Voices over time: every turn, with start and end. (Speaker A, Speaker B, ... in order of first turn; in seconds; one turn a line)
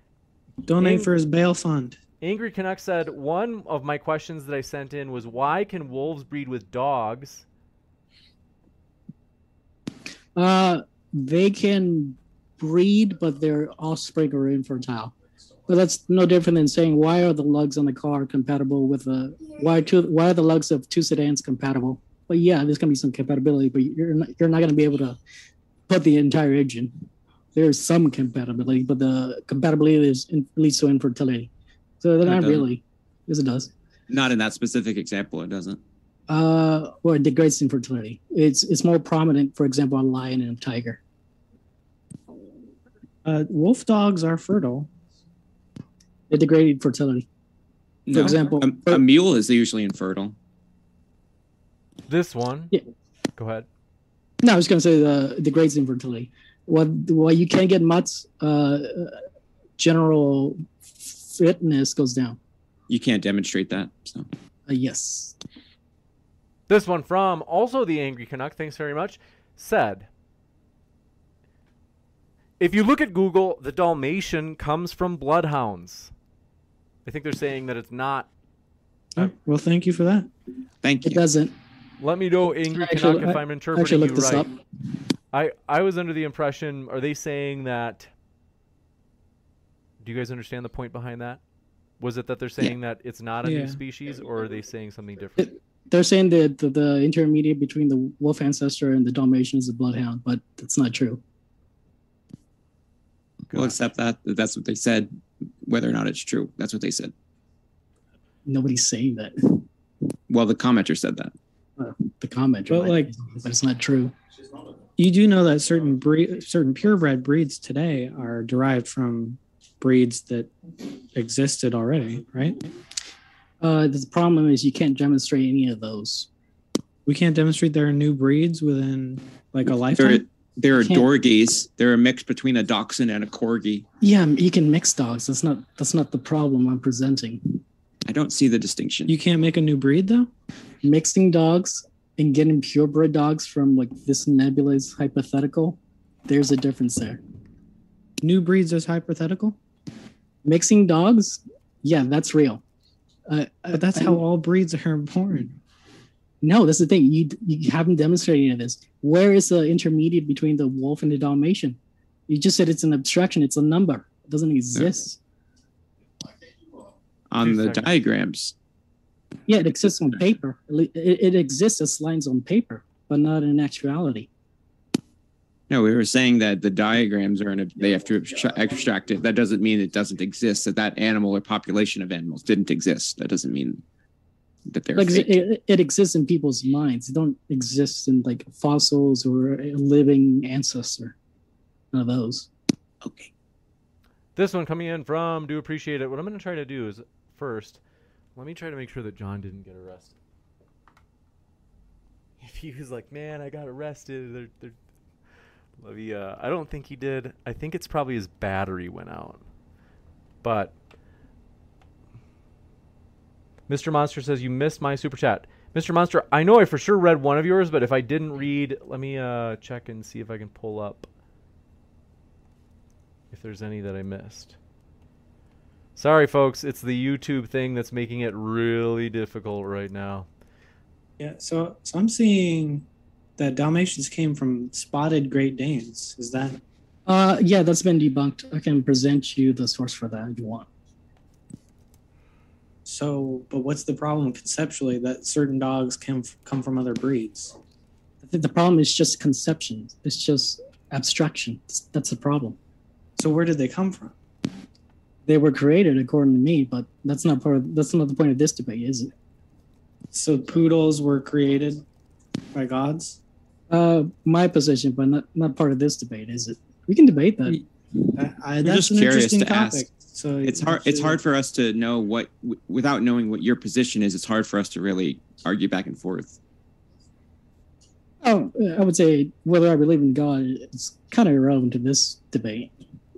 Speaker A: 0.7-2.0
Speaker B: 0.8-1.1
Speaker B: 2.2-7.5
Speaker C: 10.3-15.1
Speaker C: 15.7-25.2
Speaker C: 25.9-33.7
Speaker D: 32.2-32.6
Speaker D: 34.1-35.8
Speaker C: 36.3-41.0
Speaker A: 43.2-44.9
Speaker C: 46.3-47.3
Speaker D: 48.1-50.4
Speaker C: 48.1-49.0
Speaker B: 52.1-52.8
Speaker B: 53.4-53.7
Speaker C: 54.4-59.2
Speaker C: 59.8-62.4
Speaker D: 62.9-64.3
Speaker C: 64.7-65.3
Speaker B: 66.7-70.1
Speaker B: 72.6-76.1
Speaker B: 77.1-78.3
Speaker A: 79.2-80.3
Speaker D: 80.8-81.3
Speaker C: 81.0-81.5
Speaker B: 82.0-84.5
Speaker C: 82.7-84.5
Speaker B: 85.3-88.1
Speaker B: 90.0-91.4
Speaker B: 92.0-95.5
Speaker A: 93.4-93.8
Speaker C: 95.4-101.2
Speaker B: 103.5-103.8
Speaker D: 103.5-105.1
Speaker D: 105.6-107.1
Speaker C: 108.5-109.7
Speaker D: 110.3-111.3
Speaker C: 111.8-114.1
Speaker A: 112.7-113.1
Speaker A: 115.0-120.5
Speaker A: 121.1-122.6
Speaker C: 123.6-126.3
Speaker A: 127.1-130.2
Speaker D: 130.0-133.8
Speaker C: 130.8-131.1
Speaker C: 134.0-137.6
Speaker D: 138.1-139.1
Speaker A: 139.1-140.3
Speaker C: 140.8-147.2
Speaker A: 148.2-149.6
Speaker C: 150.4-152.6
Speaker C: 153.3-154.2
Speaker A: 153.7-155.6
Speaker C: 156.4-165.2
Speaker D: 167.3-168.5
Speaker B: 167.4-167.9
Speaker C: 169.5-174.3
Speaker D: 175.7-183.8
Speaker D: 184.7-185.4
Speaker C: 185.0-191.2
Speaker C: 191.9-192.5
Speaker D: 193.0-193.3
Speaker B: 194.4-197.8
Speaker B: 198.4-200.2
Speaker B: 202.4-204.8
Speaker B: 205.8-209.4
Speaker B: 210.4-210.7
Speaker B: 213.7-221.1
Speaker B: 223.3-224.6
Speaker B: 226.0-230.3
Speaker A: 231.2-232.9
Speaker A: 233.4-236.6
Speaker C: 237.1-240.7
Speaker A: 242.9-247.6
Speaker C: 248.2-252.6
Speaker A: 253.2-254.2
Speaker C: 255.2-259.1
Speaker A: 260.1-261.8
Speaker A: 262.5-263.2
Speaker C: 263.7-267.6
Speaker A: 268.1-271.2
Speaker D: 268.6-269.9
Speaker D: 270.4-276.4
Speaker C: 278.2-282.7